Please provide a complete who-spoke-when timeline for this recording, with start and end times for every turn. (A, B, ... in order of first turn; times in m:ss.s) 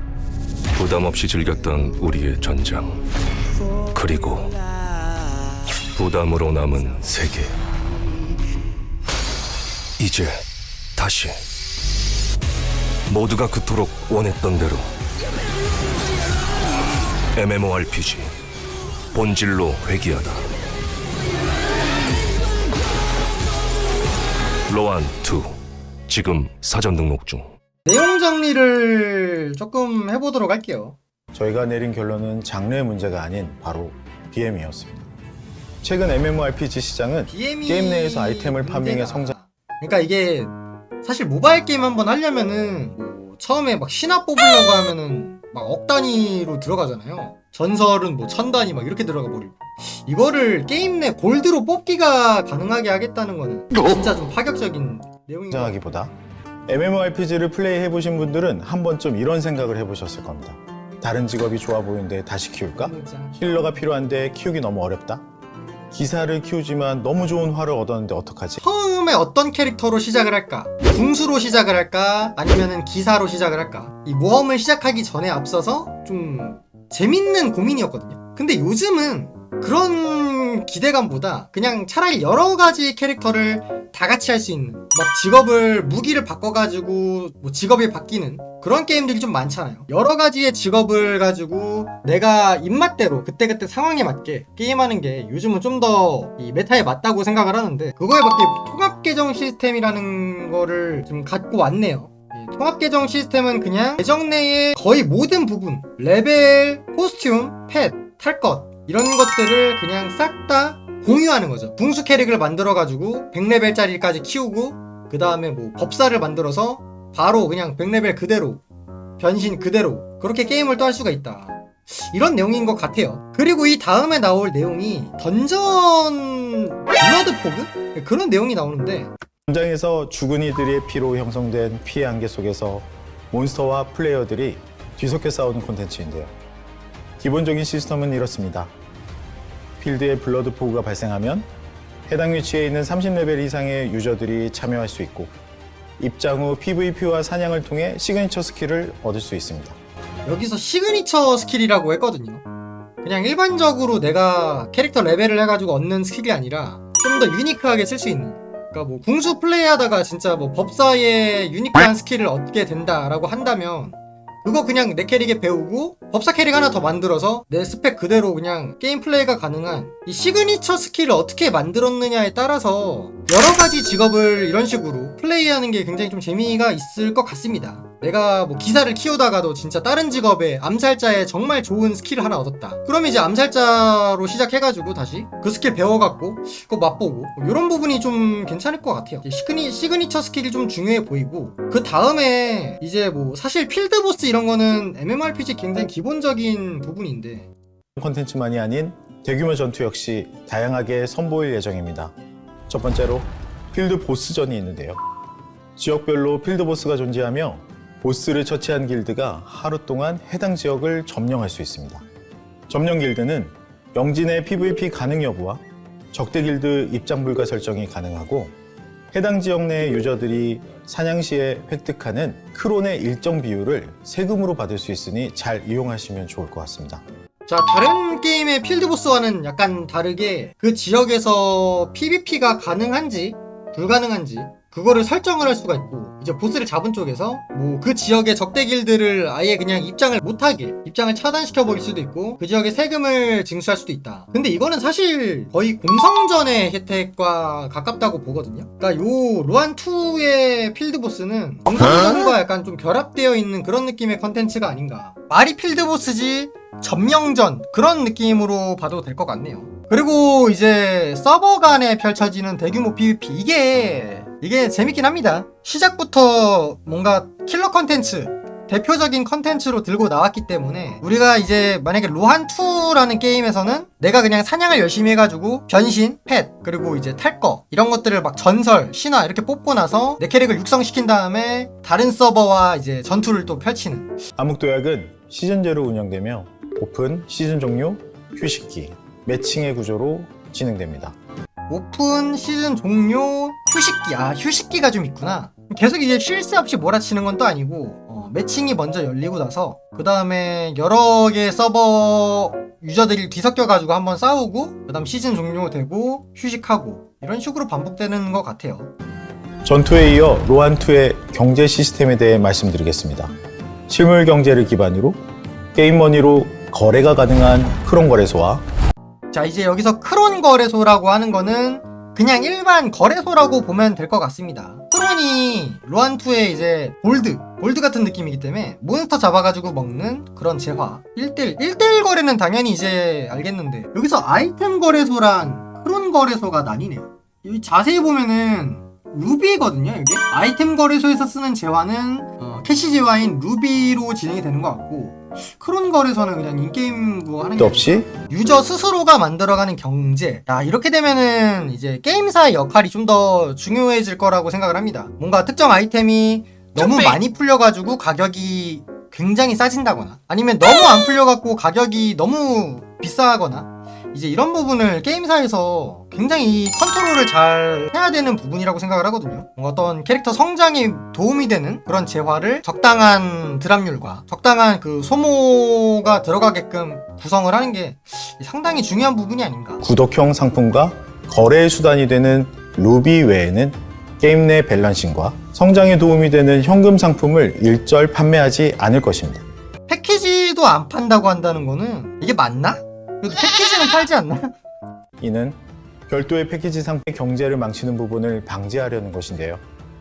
0:00.7-0:03.0 A
0:03.8-0:04.6 A
0:05.9-0:07.6 A
0:10.0-0:10.4 A
0:11.0-0:11.4 A
0:13.1-0:14.9 A
0:17.3-0:18.3 A
0:19.1-0:20.4 A
0:24.7-0:25.5 A
0:26.1-0:27.5 A
0:27.8-0:31.0 B
0:31.3-0:35.1 C
0:35.8-0:39.4 C
0:37.3-0:55.8 B
0:55.5-0:56.1 C
0:56.7-1:05.2 C
1:02.8-1:03.8 B
1:05.9-1:08.6 C
1:08.6-1:58.6 B
1:59.2-2:09.1 B
2:09.5-2:16.3 C
2:17.2-2:18.7 C
2:19.8-2:21.5 C
2:22.1-2:25.4 C
2:26.0-2:29.8 C
2:30.2-2:32.4 B
2:33.0-3:17.5 B
3:18.0-3:22.1 C
3:22.7-3:25.0 C
3:25.8-3:32.0 C
3:32.7-3:38.5 C
3:39.1-3:47.0 C
3:47.5-4:44.2 B
4:44.4-4:51.1 C
4:51.7-5:08.9 B
5:09.6-5:13.3 C
5:13.9-5:15.2 C
5:15.7-5:18.6 C
5:19.3-6:19.8 B
5:47.6-5:48.1 C
6:19.8-6:29.4 C
6:29.9-6:34.5 B
6:35.2-6:39.6 C